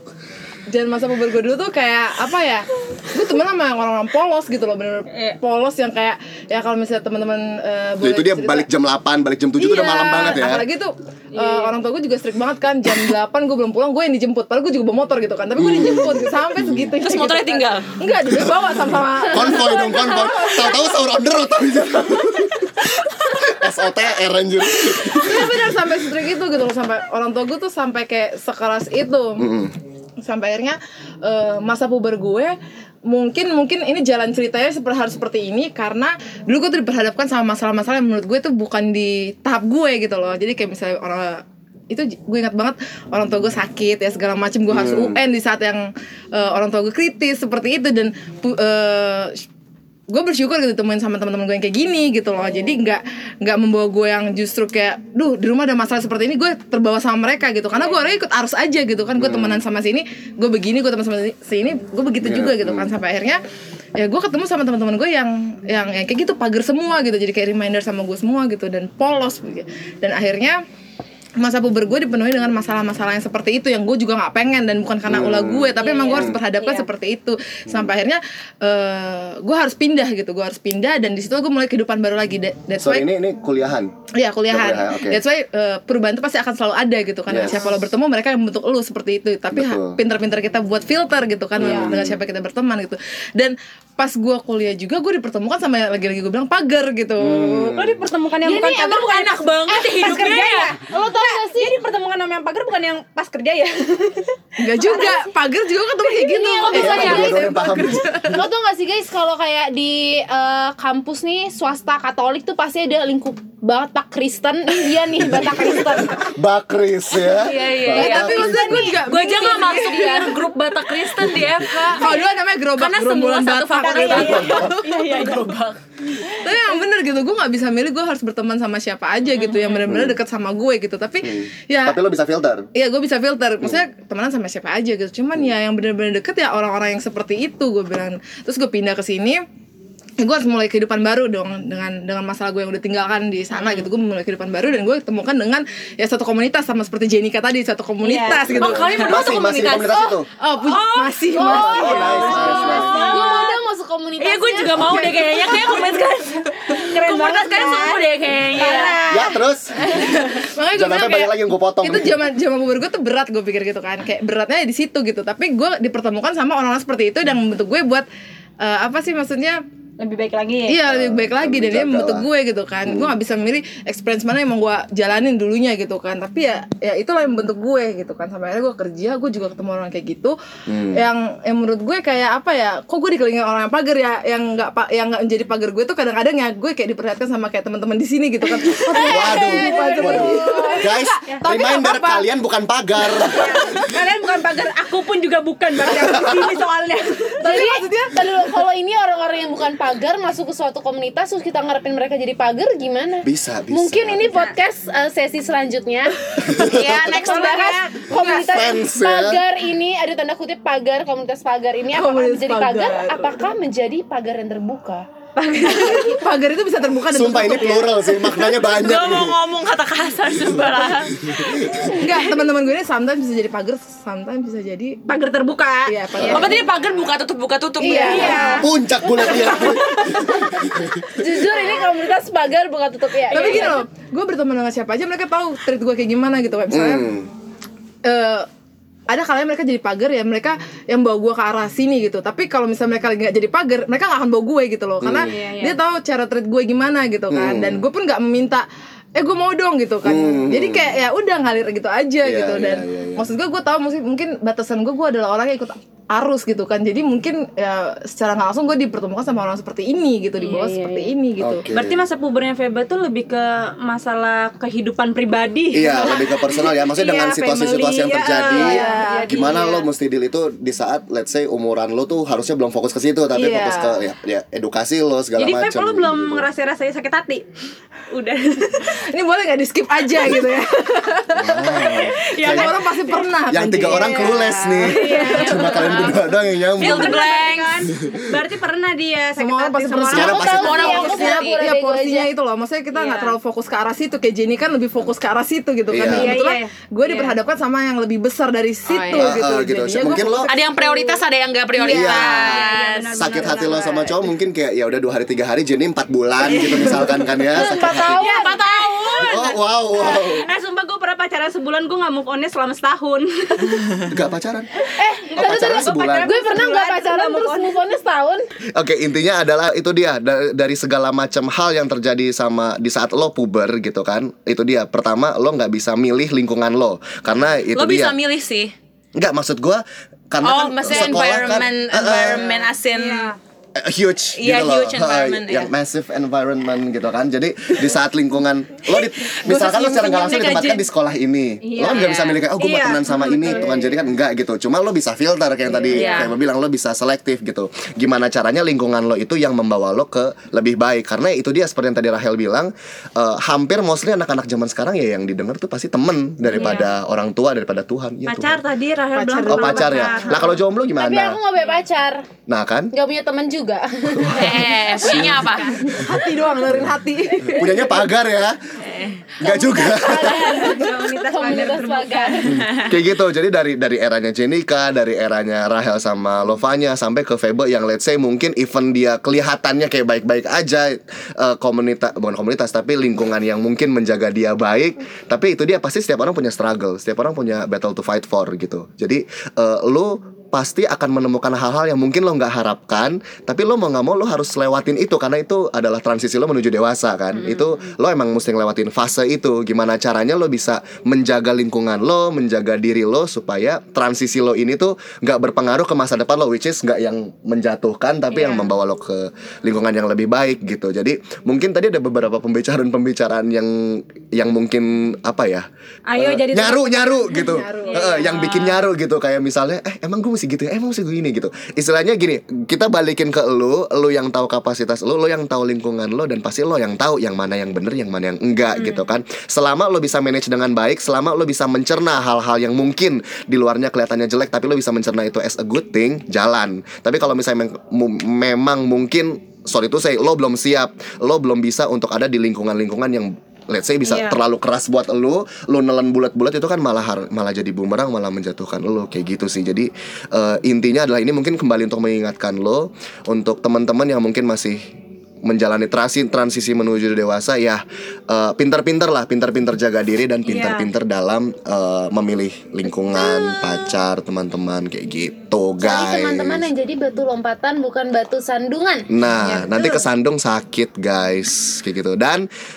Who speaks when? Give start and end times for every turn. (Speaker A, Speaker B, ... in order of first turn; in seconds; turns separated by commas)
Speaker A: 0.7-8.7, Speaker B: 5.1-5.4, Speaker C: 8.0-10.7, Speaker A: 9.6-20.8, Speaker B: 11.3-11.8, Speaker C: 15.6-16.9, Speaker D: 17.0-17.9, Speaker C: 19.3-25.7, Speaker A: 24.9-29.5, Speaker C: 29.4-29.8, Speaker A: 30.2-32.6, Speaker A: 33.1-49.5, Speaker C: 44.7-45.2, Speaker A: 50.1-63.4, Speaker C: 59.2-59.6, Speaker C: 62.2-62.9, Speaker A: 64.0-70.6, Speaker A: 71.4-83.1, Speaker C: 75.1-76.4, Speaker B: 75.8-76.9, Speaker C: 82.8-83.9, Speaker A: 84.2-97.8, Speaker C: 84.5-85.2, Speaker C: 87.3-87.7, Speaker C: 89.5-90.0, Speaker C: 91.6-92.2, Speaker C: 97.2-98.0, Speaker B: 97.8-99.1, Speaker E: 98.4-101.8, Speaker D: 98.5-100.8, Speaker B: 99.7-104.3, Speaker A: 104.6-108.4, Speaker E: 104.8-105.3, Speaker E: 106.2-107.6, Speaker C: 106.7-108.1, Speaker E: 108.2-116.3, Speaker C: 115.3-118.8, Speaker D: 117.2-122.2, Speaker A: 117.9-120.4, Speaker A: 121.7-124.9, Speaker D: 122.8-125.8, Speaker B: 123.8-125.5, Speaker C: 124.2-124.7, Speaker A: 126.4-132.0, Speaker D: 129.4-129.8, Speaker C: 129.9-130.2, Speaker C: 131.2-132.7, Speaker A: 132.7-139.4, Speaker A: 140.2-149.7, Speaker B: 148.0-149.4, Speaker C: 148.4-150.3, Speaker D: 148.6-153.5, Speaker A: 150.3-152.8, Speaker B: 151.3-153.6, Speaker C: 151.4-153.1, Speaker E: 151.5-155.1, Speaker D: 154.2-159.0, Speaker A: 154.7-156.1, Speaker B: 156.7-158.0, Speaker E: 158.5-159.3, Speaker B: 158.6-158.9, Speaker C: 159.1-159.9, Speaker A: 159.9-168.1, Speaker D: 159.9-160.5, Speaker C: 160.7-162.2, Speaker A: 168.6-169.6, Speaker B: 170.0-170.8, Speaker A: 170.7-180.4, Speaker C: 170.8-172.3, Speaker C: 172.9-173.2, Speaker C: 180.7-181.0, Speaker A: 180.9-192.1, Speaker B: 188.9-191.5, Speaker C: 189.1-193.8, Speaker E: 189.5-190.9, Speaker B: 193.0-197.8, Speaker C: 195.8-196.5, Speaker E: 197.4-215.1, Speaker C: 203.2-204.4, Speaker C: 206.4-207.1, Speaker D: 206.5-208.6, Speaker C: 208.5-209.4, Speaker A: 211.9-213.4, Speaker B: 215.4-216.2, Speaker A: 215.6-218.2, Speaker C: 217.1-219.4, Speaker D: 218.6-221.9, Speaker C: 221.2-221.8, Speaker A: 221.7-225.0, Speaker B: 225.1-225.9, Speaker A: 225.9-226.7, Speaker C: 226.1-226.5, Speaker D: 226.3-228.6, Speaker E: 227.8-228.7, Speaker A: 227.9-228.6, Speaker B: 227.9-228.7, Speaker C: 228.6-231.2, Speaker B: 229.4-229.7, Speaker E: 231.2-233.8, Speaker A: 233.3-237.1, Speaker B: 233.3-233.8, Speaker C: 236.7-237.3, Speaker A: 238.0-238.5, Speaker A: 239.1-261.7, Speaker C: 245.0-245.3, Speaker B: 245.2-245.8, Speaker C: 247.3-247.8, Speaker C: 250.0-250.9, Speaker C: 252.2-253.3, Speaker B: 260.4-261.1, Speaker C: 261.4-262.1, Speaker B: 261.7-269.5, Speaker C: 265.7-276.5, Speaker E: 268.6-269.7, Speaker A: 268.6-269.7, Speaker A: 273.3-274.0, Speaker B: 275.4-277.4, Speaker B: 278.1-278.9, Speaker A: 279.1-285.8, Speaker C: 281.4-282.8, Speaker B: 281.6-283.3, Speaker C: 283.5-287.2, Speaker D: 284.3-287.9, Speaker B: 284.8-286.1, Speaker B: 286.8-290.4, Speaker A: 289.4-300.7, Speaker E: 290.1-292.3, Speaker C: 290.1-290.9, Speaker D: 290.4-291.7, Speaker B: 292.9-293.4, Speaker C: 295.9-296.4, Speaker B: 296.0-297.4, Speaker D: 298.9-299.3, Speaker C: 299.2-300.5, Speaker D: 300.5-303.8, Speaker B: 300.7-301.1, Speaker B: 301.8-304.2, Speaker C: 301.8-302.6, Speaker C: 303.2-308.1, Speaker D: 306.5-309.6, Speaker E: 307.5-308.6, Speaker B: 308.3-314.1, Speaker C: 309.2-310.4, Speaker C: 314.1-314.7, Speaker E: 315.0-318.5, Speaker A: 315.0-315.3, Speaker B: 315.3-317.8, Speaker C: 315.4-316.3, Speaker C: 318.7-328.2, Speaker D: 327.7-328.7, Speaker C: 329.2-332.5, Speaker D: 330.4-333.3, Speaker B: 332.9-333.4, Speaker C: 333.8-358.6, Speaker D: 334.4-335.7, Speaker D: 338.9-340.9, Speaker B: 341.6-343.7, Speaker D: 341.9-342.4, Speaker D: 345.9-346.4, Speaker B: 356.5-356.9, Speaker B: 358.3-360.6, Speaker A: 359.1-360.6, Speaker C: 359.5-361.4, Speaker E: 360.9-362.3, Speaker C: 362.5-362.9, Speaker E: 362.9-364.5, Speaker C: 364.1-365.5, Speaker D: 364.3-365.8, Speaker B: 365.2-365.8, Speaker A: 365.8-367.9, Speaker C: 367.5-368.6, Speaker D: 368.9-369.3, Speaker C: 369.4-370.6, Speaker E: 369.4-372.7, Speaker B: 369.9-372.5, Speaker C: 372.5-415.7, Speaker B: 408.3-408.7, Speaker B: 416.1-418.7, Speaker C: 416.2-454.9, Speaker A: 417.3-418.2, Speaker B: 444.1-444.4, Speaker C: 455.4-466.7, Speaker B: 460.5-460.9, Speaker E: 465.8-469.1, Speaker C: 469.1-472.5